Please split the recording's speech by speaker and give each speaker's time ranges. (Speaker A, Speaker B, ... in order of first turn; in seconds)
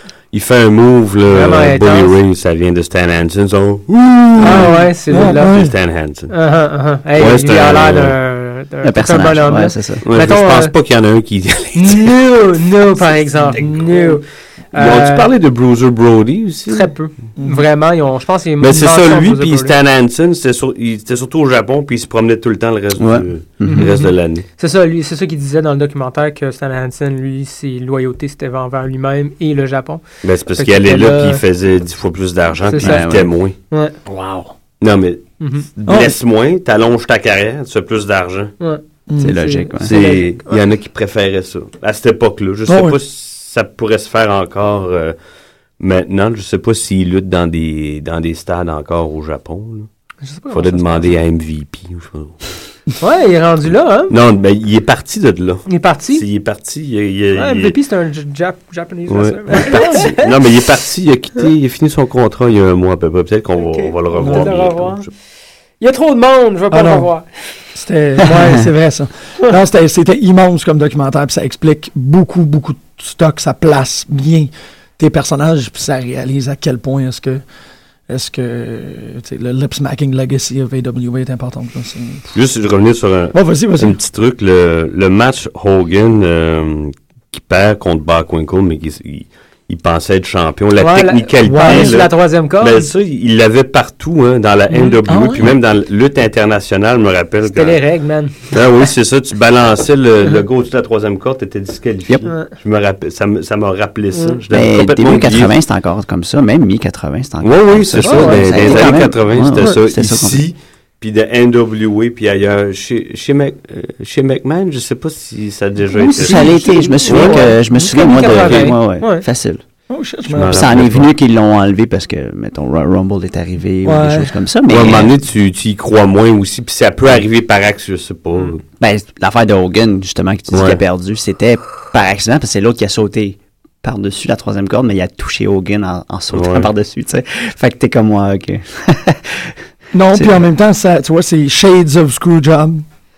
Speaker A: 0.3-6.3, 7.2-8.2, 10.1-12.2, 13.0-14.2, 14.7-16.9, 18.6-24.4, 30.2-33.5, 34.8-38.5, 39.8-45.1, 45.8-49.9, 50.5-52.4, 54.1-57.8, 59.1-65.1, 82.3-97.8, 98.5-105.5, 107.4-117.6, 118.2-118.7, 120.3-121.1, 124.7-128.6, 130.5-130.8, 136.3-136.7
Speaker B: 1.3-2.1, 4.4-5.6, 6.3-10.7, 11.7-15.3, 16.7-19.7, 23.6-30.0, 30.5-31.4, 32.6-33.0, 35.4-35.7, 38.6-40.6, 50.2-51.1, 53.0-54.1, 55.7-56.2, 57.3-60.3, 63.5-65.1, 65.8-67.2, 90.8-92.9, 94.7-95.4, 97.4-98.6, 104.1-104.4, 108.0-109.8, 116.0-119.2
Speaker C: 4.4-5.7, 17.4-17.6, 34.0-34.5, 35.9-36.1, 39.1-39.5, 42.7-43.0, 59.6-60.1, 64.2-64.5, 66.7-67.1, 67.7-77.4, 78.1-82.2, 83.3-84.0, 91.4-92.0, 95.1-95.4, 116.5-117.3, 119.9-120.9, 123.8-124.3, 139.9-142.8
Speaker D: 8.8-10.1, 23.0-23.9, 32.8-33.3, 39.2-40.0, 104.5-110.4, 115.9-119.6, 120.4-125.1, 128.8-139.5, 140.1-140.4